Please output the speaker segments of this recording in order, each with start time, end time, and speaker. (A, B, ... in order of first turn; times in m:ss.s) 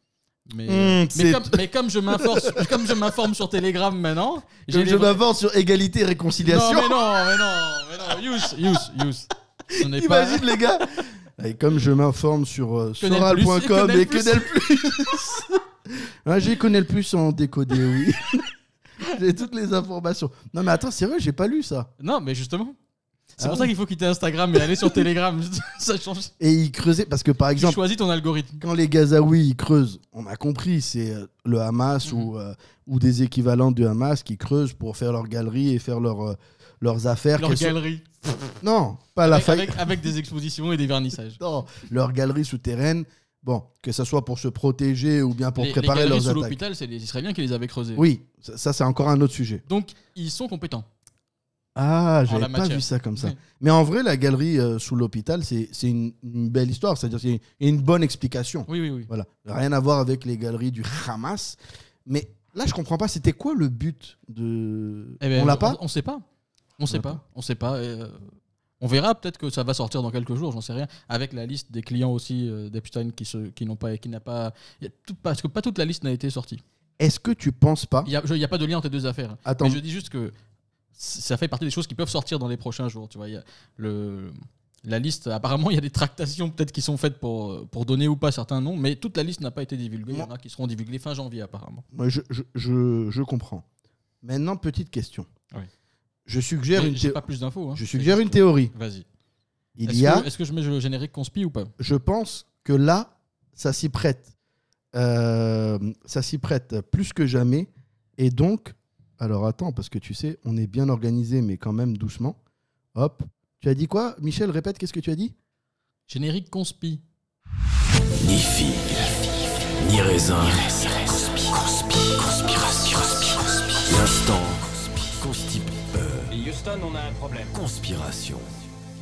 0:00.5-0:05.2 A
0:00.6-0:03.0 B
0:04.7-0:07.2 B
0:06.4-0:10.5 A
0:09.7-0:15.6 B
0:13.0-0:14.5 A
0:16.2-0:18.4 B
0:19.0-0:21.9 B
0:22.0-0:22.8 A
0:23.4-0:26.3 A
0:23.4-0:23.7 B
0:26.4-0:27.8 B
0:27.5-0:28.6 A
0:28.6-0:37.8 B
0:37.4-0:38.1 A
0:38.6-0:39.9 B
0:39.2-0:41.4 A
0:41.4-0:46.6 B
0:45.6-0:48.0 A
0:48.0-0:49.6 B
0:49.7-0:50.9 A
0:51.7-1:05.8 B
0:52.3-0:53.4 A
0:58.7-0:59.1 A
1:05.2-1:06.2 A
1:06.8-1:08.3 A
1:06.9-1:07.2 B
1:08.8-1:16.6 A
1:17.0-1:18.1 B
1:18.0-1:20.3 A
1:19.4-1:19.8 B
1:21.0-1:31.8 A
1:31.9-1:33.6 B
1:34.2-1:35.3 B
1:36.2-1:37.2 B
1:36.7-1:39.0 A
1:37.7-1:38.7 B
1:39.8-1:40.3 B
1:39.8-1:41.7 A
1:41.8-1:44.3 B
1:44.9-1:52.4 B
1:52.9-1:55.3 B
1:56.1-1:57.0 A
1:58.2-1:59.2 C
1:59.8-2:06.3 C
2:07.5-2:08.5 C